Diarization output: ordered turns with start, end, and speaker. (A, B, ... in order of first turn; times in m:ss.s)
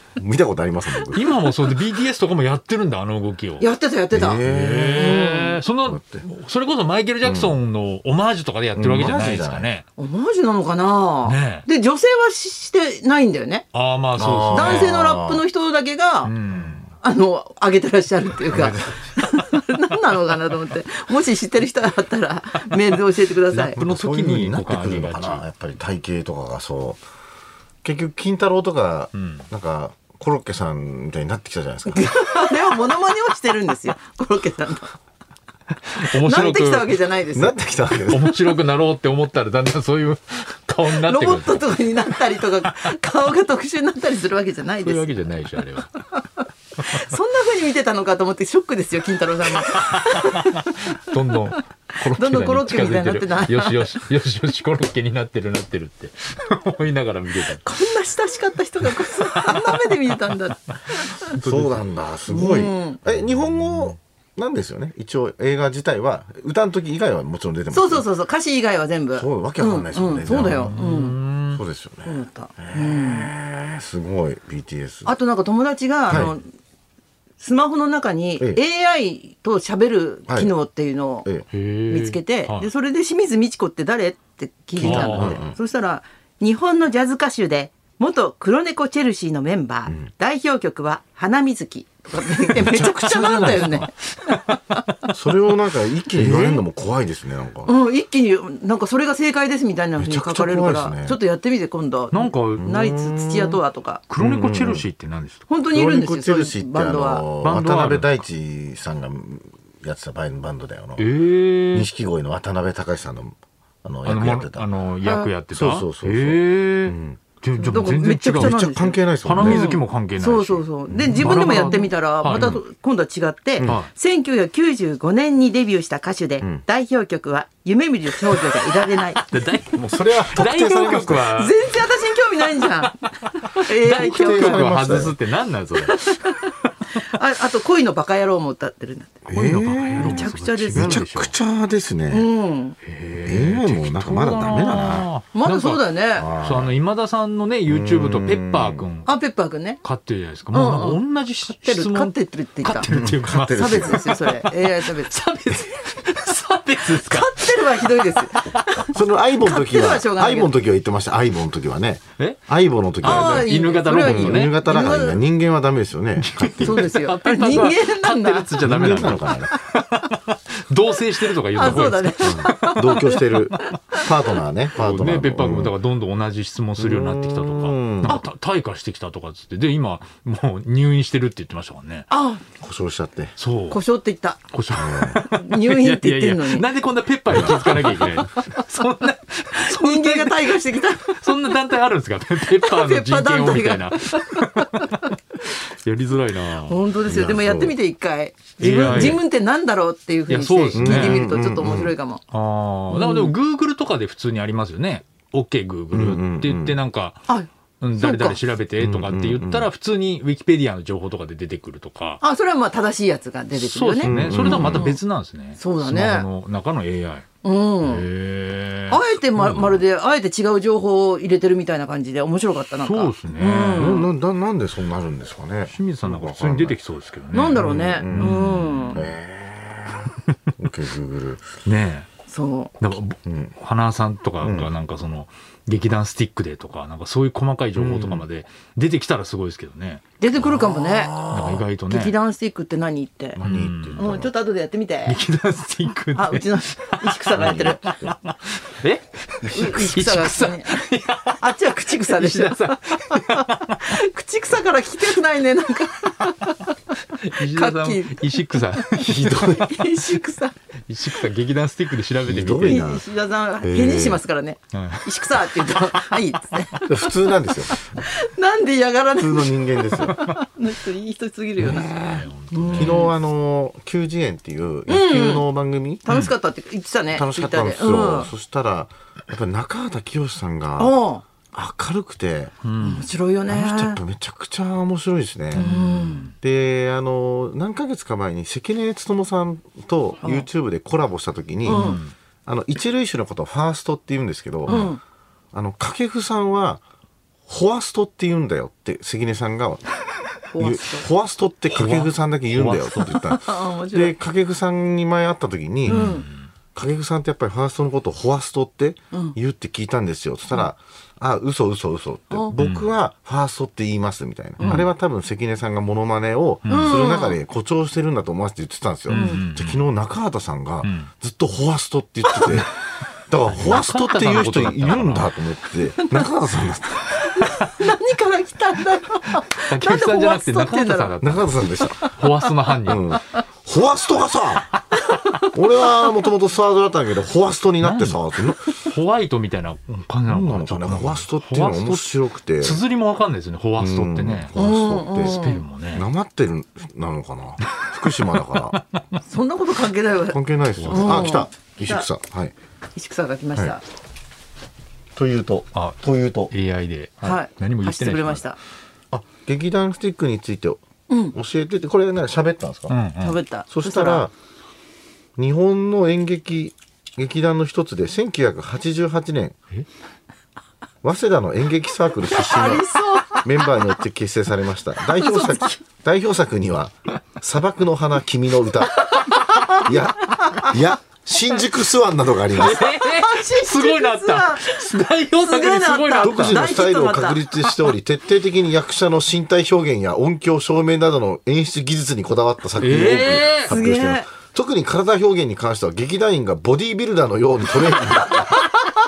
0:00.2-0:01.4 A
0:01.1-0:03.7 B
0:03.6-0:04.4 C
0:04.1-0:06.3 A
0:04.4-0:09.8 B
0:04.9-0:05.6 C
0:07.2-0:07.6 A
0:08.7-0:09.7 A
0:10.0-0:13.6 C
0:11.2-0:11.7 B
0:13.7-0:14.9 B
0:14.2-0:15.4 A
0:14.5-0:16.3 C
0:16.2-0:16.9 B
0:17.0-0:23.8 C
0:18.5-0:19.0 A
0:23.5-0:25.4 B
0:23.8-0:27.0 A
0:27.8-0:32.4 A
0:29.1-0:29.4 B
0:31.9-0:34.9 C
0:35.9-0:37.0 B
0:36.0-0:37.6 C
0:37.3-0:38.3 A
0:38.0-0:42.8 B
0:40.8-0:45.1 C
0:44.8-0:46.0 B
0:46.4-0:51.0 C
0:49.6-0:57.6 B
0:52.0-0:53.9 C
0:57.6-1:01.3 C
0:59.4-0:59.8 B
1:01.2-1:01.9 B
1:01.4-1:08.1 A
1:02.3-1:03.0 C
1:07.7-1:11.2 C
1:09.1-1:10.8 A
1:10.3-1:11.6 B
1:11.5-1:15.1 A
1:12.0-1:13.3 C
1:15.0-1:16.5 C
1:16.1-1:16.3 A
1:17.4-1:21.3 C
1:21.5-1:22.7 B
1:21.9-1:34.8 C
1:24.8-1:25.6 A
1:24.8-1:25.4 B
1:32.5-1:33.9 A
1:35.1-1:37.7 A
1:36.2-1:36.6 C
1:37.6-1:44.0 C
1:40.0-1:41.2 A
1:42.1-1:42.7 B
1:42.6-1:43.6 A
1:44.1-1:45.4 B
1:44.2-1:44.8 A
1:45.5-1:47.3 C
1:45.6-1:51.1 A
1:47.4-1:48.2 B
1:51.0-1:51.9 B
1:51.7-1:54.7 A
1:54.0-1:58.7 B
1:55.0-1:55.3 C
1:55.5-1:57.2 A
1:57.6-2:09.2 C
1:58.3-1:59.8 A
1:59.2-2:02.6 B
2:00.9-2:01.2 A
2:02.3-2:02.6 A
2:03.6-2:03.9 B
2:09.3-2:11.6 B
2:09.7-2:11.3 A
2:11.3-2:14.8 C
2:13.6-2:16.3 B
2:14.0-2:15.1 A
2:15.8-2:21.0 C
2:19.3-2:22.3 A
2:19.5-2:21.3 B
2:22.1-2:22.8 C
2:22.8-2:25.8 B
2:23.2-2:25.1 A
2:25.3-2:26.3 C
2:26.1-2:26.7 A
2:26.4-2:29.1 B
2:27.7-2:28.8 A
2:29.0-2:29.8 C
2:29.8-2:38.6 B
2:30.5-2:32.9 C
2:32.9-2:34.1 A
2:33.5-2:35.1 C
2:36.8-2:40.5 C
2:38.9-2:46.9 A
2:43.0-2:44.6 B
2:43.0-2:45.2 C
2:46.2-2:53.0 B
2:46.6-2:49.0 C
2:48.6-2:49.5 A
2:51.5-2:54.1 C
2:51.6-2:55.7 A
2:54.7-3:02.1 B
2:56.8-2:58.2 A
3:02.1-3:02.4 C
3:02.6-3:03.3 A
3:03.4-3:03.8 B
3:03.7-3:04.4 C
3:04.5-3:16.8 B
3:04.7-3:05.2 A
3:05.1-3:06.7 C
3:07.3-3:07.6 A
3:07.5-3:08.2 C
3:09.6-3:11.6 C
3:12.4-3:15.1 C
3:16.5-3:22.2 C
3:17.0-3:17.7 A
3:18.6-3:19.2 B
3:20.3-3:21.2 B
3:20.7-3:21.9 A
3:22.3-3:27.3 B
3:22.9-3:23.3 C
3:25.9-3:26.8 A
3:27.3-3:28.4 C
3:27.8-3:32.2 B
3:28.8-3:29.7 A
3:32.2-3:35.0 C
3:33.5-3:37.2 B
3:34.0-3:34.9 A
3:35.6-3:36.3 C
3:37.4-3:38.0 C
3:37.8-3:39.8 B
3:38.9-3:44.1 C
3:42.8-3:44.1 B
3:43.7-3:46.8 A
3:45.7-3:49.1 B
3:47.3-3:49.1 C
3:47.5-3:48.4 A
3:48.9-3:51.4 A
3:51.6-3:52.1 B
3:52.3-3:52.7 C
3:52.8-4:00.0 B
3:53.2-3:53.5 A
3:54.4-3:54.7 A
3:57.8-3:58.2 A
4:00.2-4:01.2 C
4:00.4-4:01.6 A
4:01.3-4:02.1 B
4:01.9-4:03.4 C
4:03.3-4:04.3 A
4:03.4-4:04.1 B
4:04.0-4:05.2 C
4:05.0-4:14.0 B
4:06.1-4:07.8 C
4:07.3-4:08.2 A
4:09.5-4:10.7 C
4:11.3-4:16.7 C
4:17.2-4:20.1 B
4:17.4-4:20.6 C
4:19.0-4:19.7 A
4:20.9-4:22.8 B
4:22.2-4:23.0 A
4:22.6-4:27.1 C
4:23.6-4:24.2 A
4:24.7-4:25.7 B
4:26.9-4:27.8 A
4:27.7-4:31.9 C
4:29.2-4:30.2 A
4:31.6-4:36.0 A
4:31.6-4:33.1 B
4:32.5-4:33.1 C
4:34.9-4:35.5 C
4:36.0-4:38.3 C
4:37.1-4:41.0 A
4:40.8-4:41.2 C
4:41.5-4:42.5 A
4:42.6-4:43.1 B
4:42.8-4:44.0 C
4:43.5-4:45.6 A
4:45.5-4:46.3 B
4:45.5-4:46.3 C
4:46.4-4:54.9 A
4:51.6-4:52.0 C
4:51.7-4:52.1 B
4:54.7-4:55.0 C
4:55.5-4:56.8 A
4:57.5-4:59.8 A
5:00.5-5:01.1 C
5:00.6-5:06.2 A
5:01.7-5:03.3 B
5:03.3-5:04.2 C
5:05.9-5:06.2 C
5:05.9-5:06.5 B
5:06.7-5:22.7 A
5:12.5-5:12.9 B
5:14.6-5:14.8 C
5:14.6-5:14.9 B
5:16.6-5:17.0 B
5:16.7-5:17.4 C
5:19.1-5:19.8 B
5:19.1-5:19.4 C
5:20.8-5:21.1 B
5:23.3-5:27.2 A
5:23.5-5:25.3 B
5:27.1-5:31.2 C
5:29.7-5:33.1 B
5:31.2-5:32.1 A
5:31.8-5:32.1 C
5:32.8-5:34.7 A
5:35.1-5:35.4 C
5:35.5-5:38.8 A
5:37.8-5:44.5 B
5:40.3-5:42.8 A
5:43.8-5:48.8 A
5:44.5-5:45.6 C
5:45.2-5:46.0 B
5:49.3-5:52.1 C
5:50.3-5:52.5 A
5:50.8-5:51.4 B
5:53.0-5:53.8 C
5:55.2-5:56.5 A
5:55.7-5:58.5 B
5:57.2-5:58.6 C
5:59.1-6:00.8 A
6:01.1-6:01.3 C
6:01.3-6:03.0 A
6:02.9-6:03.4 B
6:03.2-6:04.3 C
6:03.7-6:04.3 A
6:05.4-6:09.5 A
6:11.0-6:19.1 A
6:12.3-6:13.7 C
6:15.1-6:15.8 C
6:19.0-6:20.7 C
6:19.2-6:19.7 B
6:19.6-6:22.8 A
6:22.5-6:26.6 B
6:22.6-6:24.8 C
6:25.4-6:27.4 C
6:26.2-6:38.7 A
6:32.8-6:33.7 B
6:33.7-6:34.3 C
6:38.3-6:38.6 C